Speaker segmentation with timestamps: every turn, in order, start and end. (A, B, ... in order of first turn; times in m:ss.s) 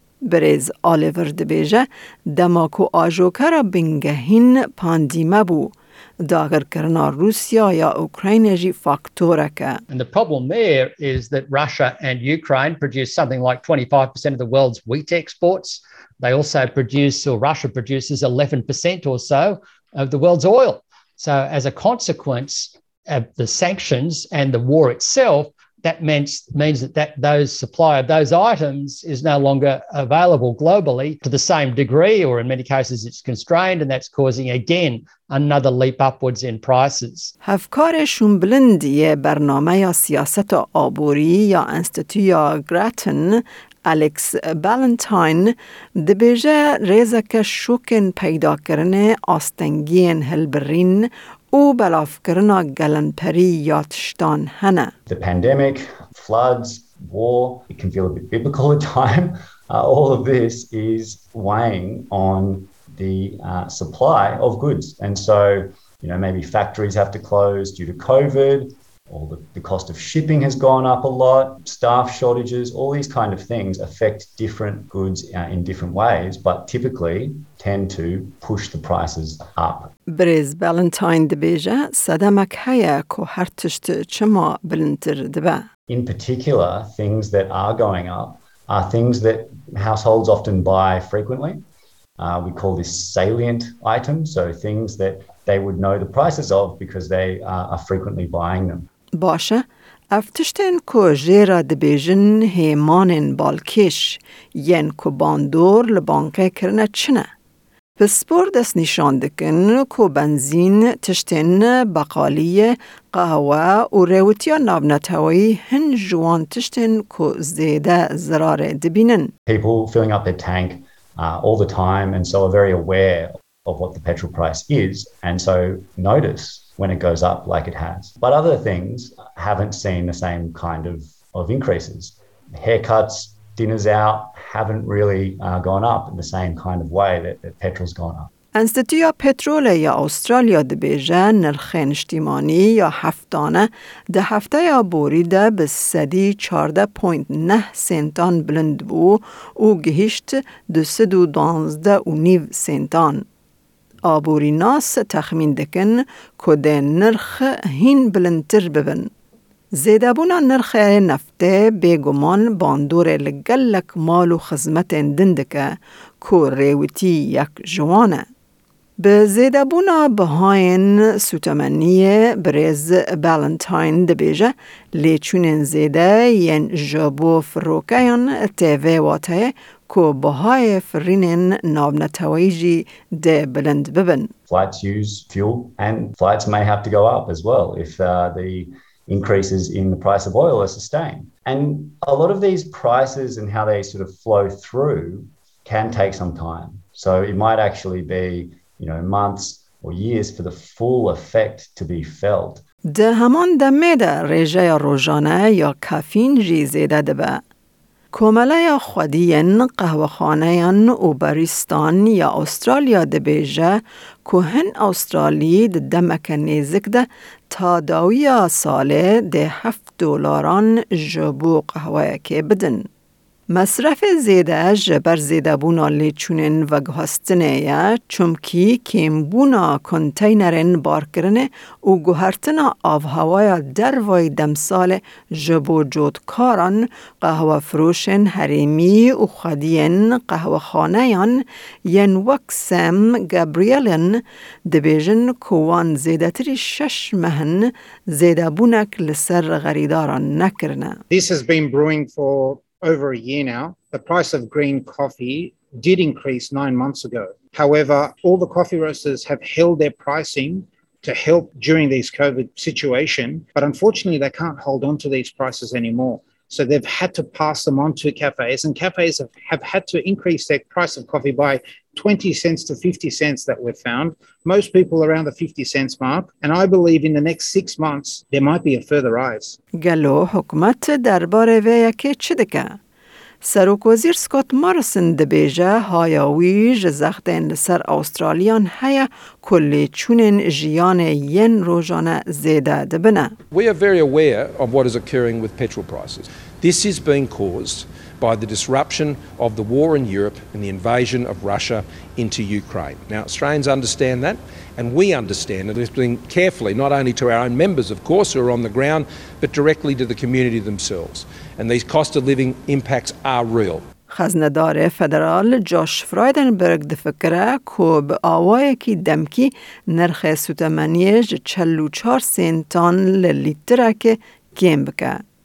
0:00.2-0:09.8 A
0:09.9-0:37.3 B
0:37.4-0:54.9 A
0:55.1-1:19.9 C
1:20.1-1:25.6 A
1:25.9-1:31.6 C
1:32.2-1:38.9 C
1:39.2-1:47.3 A
1:48.0-1:59.3 A
1:59.5-2:18.3 C
2:18.5-2:33.2 A
2:34.0-2:39.1 A
2:39.7-2:48.2 A
2:49.0-3:04.3 A
3:04.5-3:22.6 C
3:22.9-3:27.4 A
3:28.1-3:42.9 A
3:43.5-4:11.0 A
4:11.1-4:39.6 D
4:39.8-4:42.8 A
4:43.4-4:53.3 A
4:53.5-5:13.8 E
5:14.1-5:25.2 A